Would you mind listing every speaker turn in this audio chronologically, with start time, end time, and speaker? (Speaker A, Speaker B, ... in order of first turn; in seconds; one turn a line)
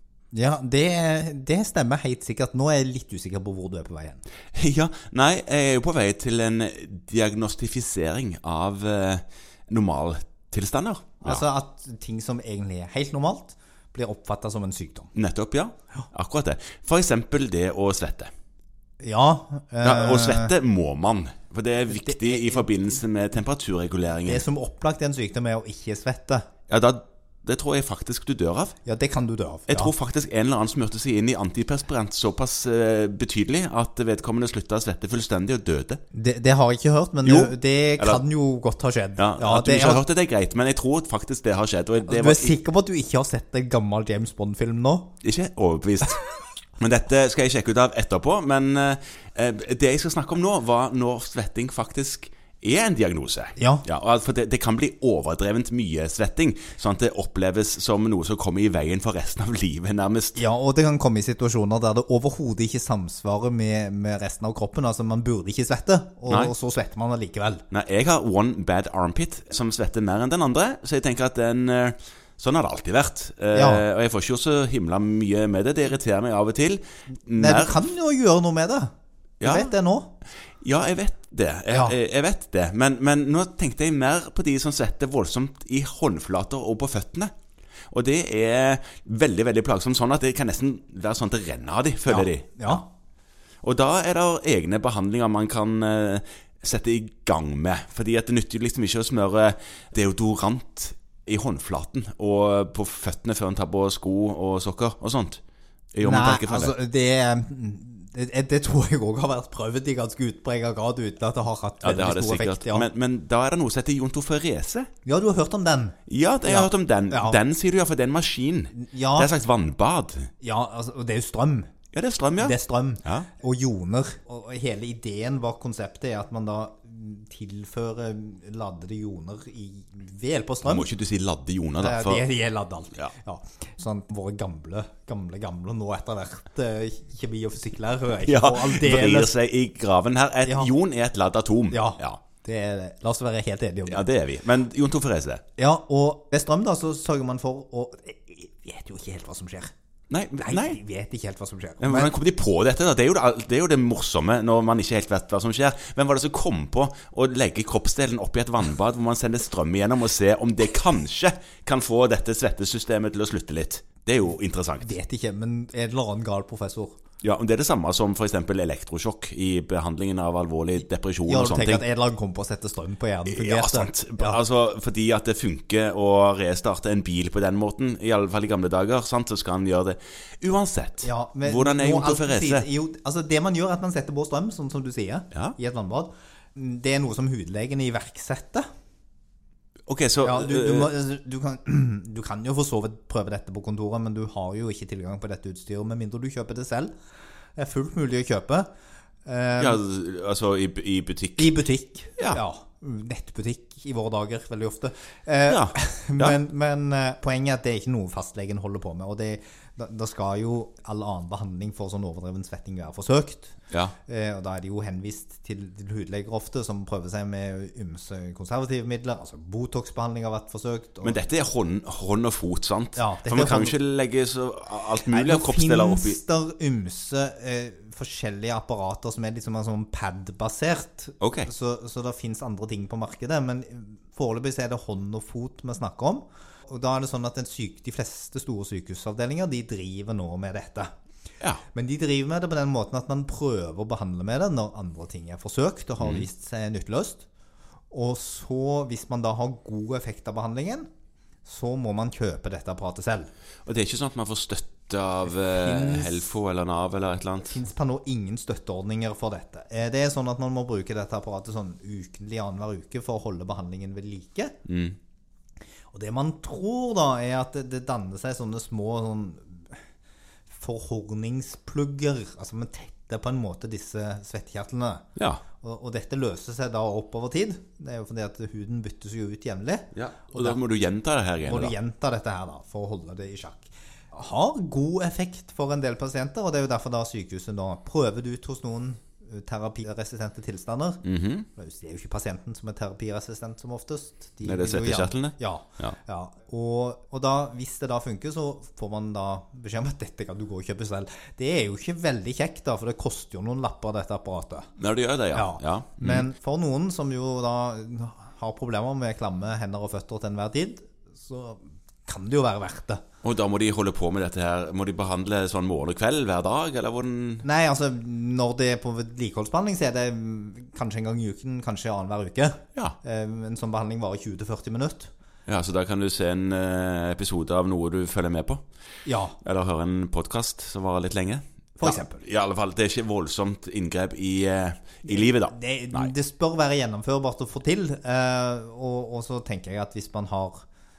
Speaker A: 0.3-4.2
Speaker B: 4.5-11.4
Speaker A: 11.2-15.1
Speaker B: 15.1-18.3
Speaker A: 19.0-20.5
Speaker B: 19.8-24.4
Speaker A: 21.9-23.0
Speaker A: 24.2-26.5
Speaker B: 26.7-28.7
Speaker A: 28.8-29.9
Speaker B: 29.7-36.0
Speaker A: 36.1-40.0
Speaker B: 37.2-38.2
Speaker B: 39.2-42.5
Speaker A: 42.1-45.1
Speaker B: 45.2-46.2
Speaker B: 46.8-60.4
Speaker A: 53.6-53.9
Speaker A: 60.3-67.6
Speaker B: 66.3-66.5
Speaker B: 67.7-77.8
Speaker A: 73.5-73.8
Speaker A: 77.3-78.9
Speaker B: 79.4-79.7
Speaker A: 79.4-80.1
Speaker B: 80.6-87.3
Speaker A: 81.7-82.0
Speaker B: 87.9-92.8
Speaker A: 92.1-92.8
Speaker B: 93.6-105.4
Speaker B: 105.9-106.7
Speaker A: 106.0-112.9
Speaker B: 111.8-114.9
Speaker A: 115.0-117.4
Speaker B: 116.1-120.3
Speaker A: 118.7-119.3
Speaker A: 120.4-121.7
Speaker B: 121.9-123.3
Speaker A: 122.4-130.9
Speaker B: 130.6-132.2
Speaker A: 131.8-139.3
Speaker B: 138.2-142.2
Speaker A: 140.4-140.7
Speaker A: 141.7-144.1
Speaker B: 143.8-145.4
Speaker A: 145.6-149.7
Speaker B: 150.1-150.8
Speaker A: 150.4-152.1
Speaker B: 151.8-164.9
Speaker A: 164.8-167.0
Speaker B: 167.2-171.8
Speaker A: 171.2-174.4
Speaker B: 173.2-182.7
Speaker A: 181.0-188.7
Speaker B: 189.9-190.9
Speaker A: 190.2-196.9
Speaker A: 197.6-198.7
Speaker A: 199.2-199.8
Speaker B: 199.6-201.5
Speaker A: 201.4-213.5
Speaker B: 205.5-206.4
Speaker A: 214.1-221.2
Speaker B: 221.0-226.2
Speaker A: 222.9-223.8
Speaker A: 225.1-240.9
Speaker B: 231.2-231.5
Speaker A: 241.7-247.2
Speaker B: 246.0-246.2
Speaker A: 247.9-250.9
Speaker A: 251.4-253.3
Speaker B: 253.6-257.6
Speaker A: 255.5-256.3
Speaker A: 257.4-264.6
Speaker B: 264.6-265.0
Speaker A: 265.9-269.8
Speaker A: 270.6-275.0
Speaker B: 275.2-275.4
Speaker A: 275.6-280.6
Speaker B: 279.9-281.7
Speaker A: 281.4-291.0
Speaker B: 291.0-291.5
Speaker A: 291.6-304.7
Speaker B: 294.4-295.9
Speaker B: 304.8-306.3
Speaker A: 305.3-313.0
Speaker B: 313.2-317.4
Speaker A: 317.4-325.1
Speaker B: 325.5-328.6
Speaker A: 329.0-329.4
Speaker B: 329.4-336.1
Speaker A: 331.8-332.2
Speaker A: 335.1-340.6